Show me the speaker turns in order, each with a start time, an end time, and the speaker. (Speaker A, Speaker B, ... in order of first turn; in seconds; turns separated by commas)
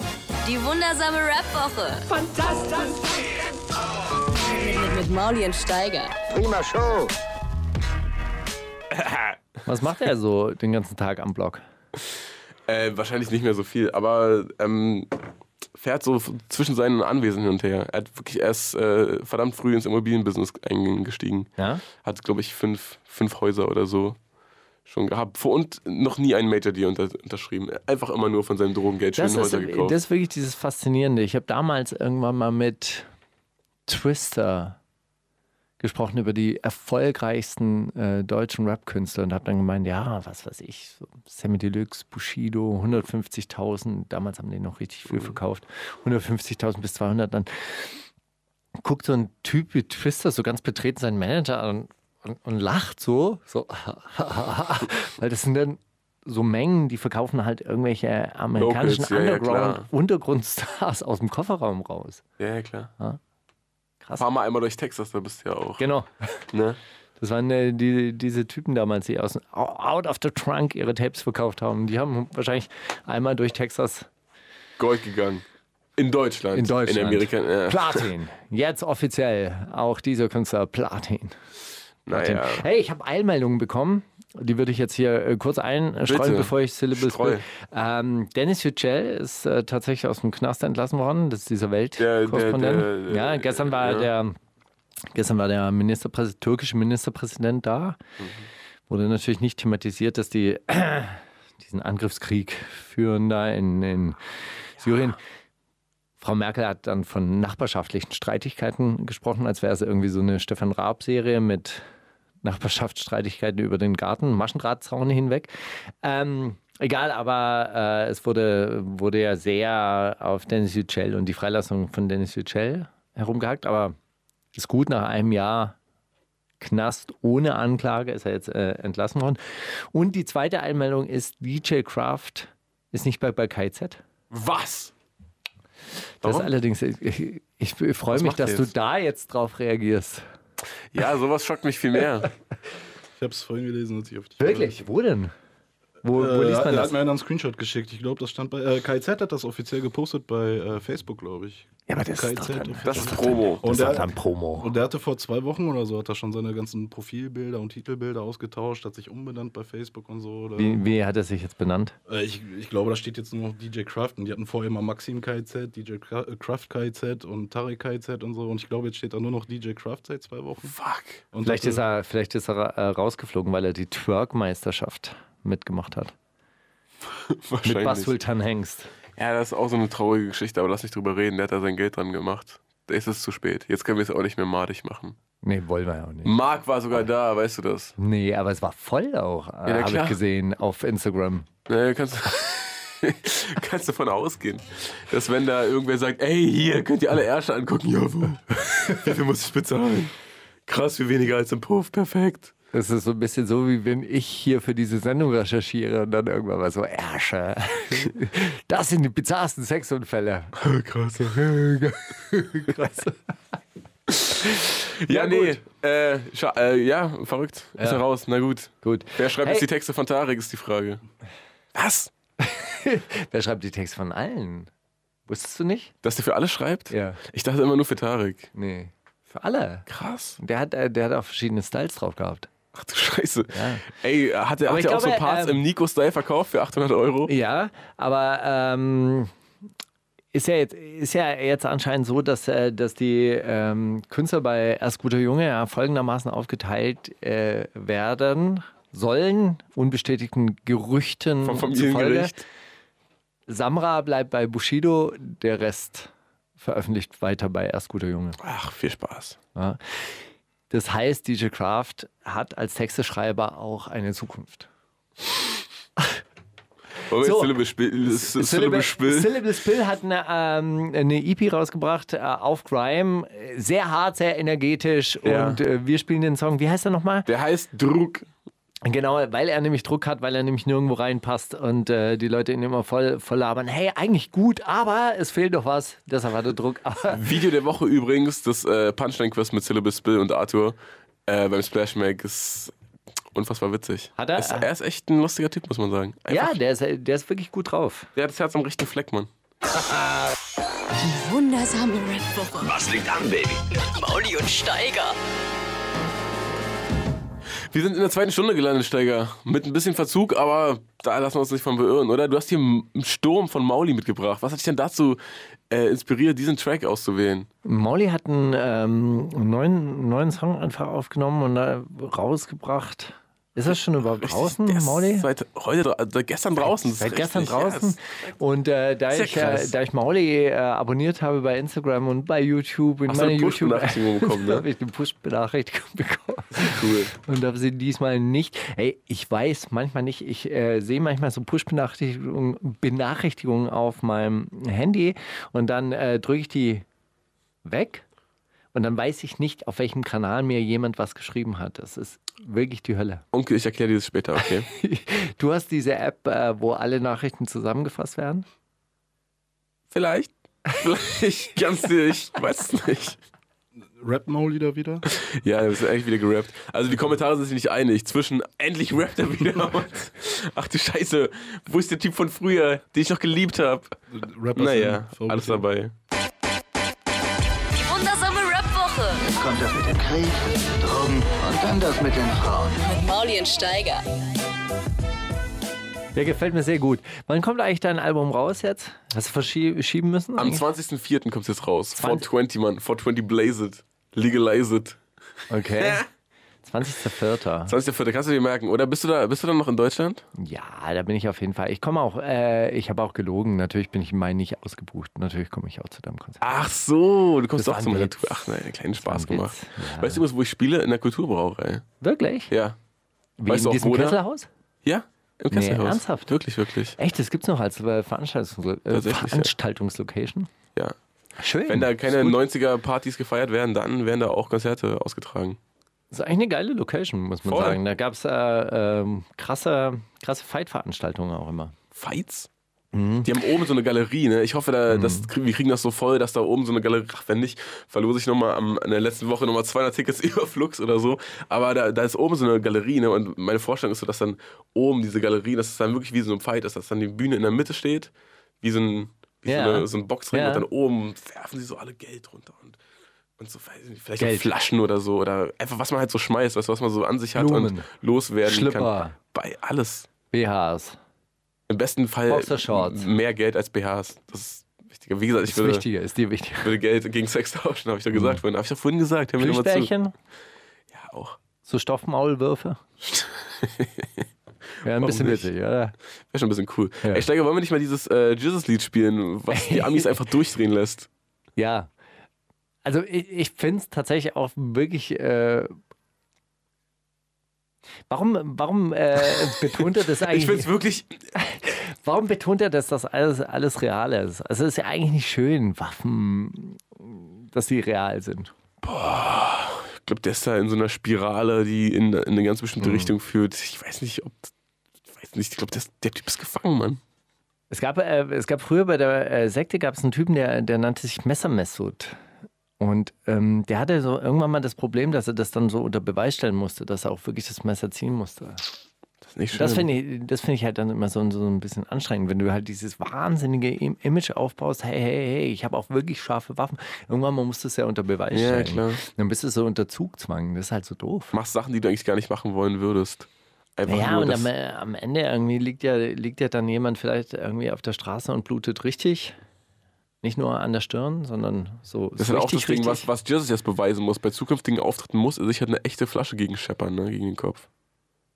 Speaker A: 0.4-2.4, Speaker A: 4.5-6.2, Speaker B: 6.3-7.1, Speaker C: 8.9-9.4, Speaker D: 9.7-11.6, Speaker C: 12.7-15.2, Speaker C: 15.8-24.2, Speaker D: 21.6-21.8, Speaker C: 24.9-30.0, Speaker D: 29.2-33.1, Speaker D: 33.9-34.8, Speaker D: 35.8-48.0, Speaker D: 48.8-62.2, Speaker C: 58.6-59.9, Speaker C: 62.4-62.9, Speaker C: 64.2-65.8, Speaker D: 65.8-66.4, Speaker C: 66.5-66.8, Speaker D: 67.2-74.1, Speaker C: 74.8-75.4, Speaker C: 76.0-78.1, Speaker D: 76.5-81.4, Speaker C: 82.1-82.6, Speaker D: 82.1-94.4, Speaker C: 86.1-87.4, Speaker C: 92.0-94.1, Speaker D: 95.1-98.0, Speaker C: 98.2-98.5, Speaker D: 98.9-104.2, Speaker D: 104.8-105.2, Speaker D: 106.2-111.8, Speaker D: 112.4-115.5, Speaker D: 116.0-124.0, Speaker D: 124.5-125.8, Speaker D: 126.6-134.0, Speaker C: 134.3-134.9, Speaker D: 136.2-140.2, Speaker C: 136.2-136.5, Speaker C: 138.1-138.7, Speaker C: 140.9-142.3, Speaker E: 143.2-144.8, Speaker D: 144.4-145.3, Speaker D: 146.0-146.9, Speaker E: 146.1-160.8, Speaker D: 151.9-154.7, Speaker C: 152.8-153.7, Speaker D: 160.6-161.9, Speaker E: 162.1-170.8, Speaker C: 170.6-171.2, Speaker E: 171.3-171.8, Speaker D: 171.4-176.1, Speaker C: 177.1-178.1, Speaker D: 177.6-178.9, Speaker C: 179.2-185.2, Speaker D: 185.4-186.3, Speaker C: 186.2-188.0, Speaker D: 188.0-191.5, Speaker C: 189.7-190.2, Speaker C: 191.7-200.1, Speaker C: 200.7-202.5, Speaker D: 202.7-210.6, Speaker C: 210.6-211.5, Speaker D: 211.2-213.2, Speaker C: 214.1-221.0, Speaker D: 215.1-215.6, Speaker D: 217.8-218.0, Speaker D: 218.8-219.7, Speaker C: 221.8-222.1, Speaker D: 222.4-224.7, Speaker D: 225.3-225.9, Speaker C: 226.0-228.5, Speaker D: 226.9-227.2, Speaker D: 228.6-229.9, Speaker C: 229.9-230.4, Speaker D: 230.4-232.5, Speaker C: 232.7-237.3, Speaker D: 233.5-233.9, Speaker D: 234.7-235.6, Speaker D: 237.3-239.3, Speaker D: 240.3-252.3, Speaker C: 251.4-252.4, Speaker D: 253.5-258.4, Speaker C: 258.4-259.4, Speaker D: 259.6-260.0, Speaker D: 260.7-264.7, Speaker C: 267.1-269.4, Speaker D: 267.2-267.5, Speaker D: 268.1-277.3, Speaker C: 275.2-275.6, Speaker C: 277.3-278.3, Speaker D: 278.9-287.2, Speaker C: 287.1-292.7, Speaker C: 293.3-296.6, Speaker D: 294.2-294.7, Speaker D: 296.3-298.1, Speaker C: 298.1-299.3, Speaker A: 301.0-302.8, Speaker B: 302.6-303.6, Speaker A: 303.7-305.2, Speaker C: 307.7-317.5, Speaker D: 317.6-325.3, Speaker C: 324.2-328.3, Speaker D: 326.6-346.9, Speaker C: 329.1-329.7, Speaker C: 333.1-334.6, Speaker C: 336.6-337.1, Speaker D: 347.6-348.1, Speaker D: 348.7-353.2, Speaker C: 353.3-354.7, Speaker D: 354.7-358.5, Speaker C: 359.9-363.2, Speaker E: 363.8-365.1, Speaker C: 365.1-373.9, Speaker E: 374.1-375.6, Speaker C: 374.6-375.9, Speaker A: 377.7-379.2, Speaker B: 379.2-382.9, Speaker A: 382.9-384.0, Speaker D: 386.1-390.7, Speaker C: 390.4-395.0, Speaker D: 392.0-392.3, Speaker D: 395.5-396.1, Speaker C: 395.7-396.1, Speaker D: 396.6-397.7, Speaker C: 397.7-400.2, Speaker D: 400.4-406.4, Speaker C: 406.4-411.9, Speaker D: 407.6-410.2, Speaker D: 412.0-412.5, Speaker C: 412.5-412.8, Speaker D: 413.4-414.5, Speaker C: 413.5-414.2, Speaker C: 414.9-417.0, Speaker D: 415.5-416.3, Speaker D: 417.0-420.5, Speaker C: 418.9-419.5, Speaker D: 421.4-422.4, Speaker C: 421.7-425.6, Speaker D: 426.1-431.7, Speaker C: 427.5-427.8, Speaker C: 431.9-432.5, Speaker D: 432.9-433.3, Speaker C: 433.2-448.1, Speaker D: 434.9-435.3, Speaker C: 448.6-452.8, Speaker D: 449.5-450.6, Speaker C: 453.4-460.1, Speaker D: 454.2-454.5, Speaker D: 457.4-457.9, Speaker D: 458.4-459.2, Speaker D: 460.3-461.0, Speaker C: 461.7-465.9, Speaker D: 462.3-463.1, Speaker D: 465.5-466.8, Speaker C: 466.6-469.9, Speaker D: 468.1-468.4, Speaker D: 469.4-470.1, Speaker C: 470.9-471.4, Speaker D: 471.6-472.8, Speaker C: 473.1-474.2, Speaker D: 474.8-475.9, Speaker C: 474.9-475.5, Speaker C: 476.3-481.1, Speaker D: 479.5-480.1, Speaker D: 481.6-481.9, Speaker D: 482.8-485.8, Speaker D: 488.1-490.7, Speaker C: 489.5-491.2, Speaker D: 491.4-498.5, Speaker C: 498.8-504.5, Speaker D: 502.8-503.1, Speaker C: 505.1-507.0, Speaker D: 507.7-512.2, Speaker D: 512.8-518.7, Speaker C: 519.2-519.9, Speaker D: 519.5-531.4, Speaker C: 528.3-529.0, Speaker C: 531.3-534.5, Speaker D: 533.9-539.4, Speaker D: 540.2-543.1, Speaker C: 542.2-547.7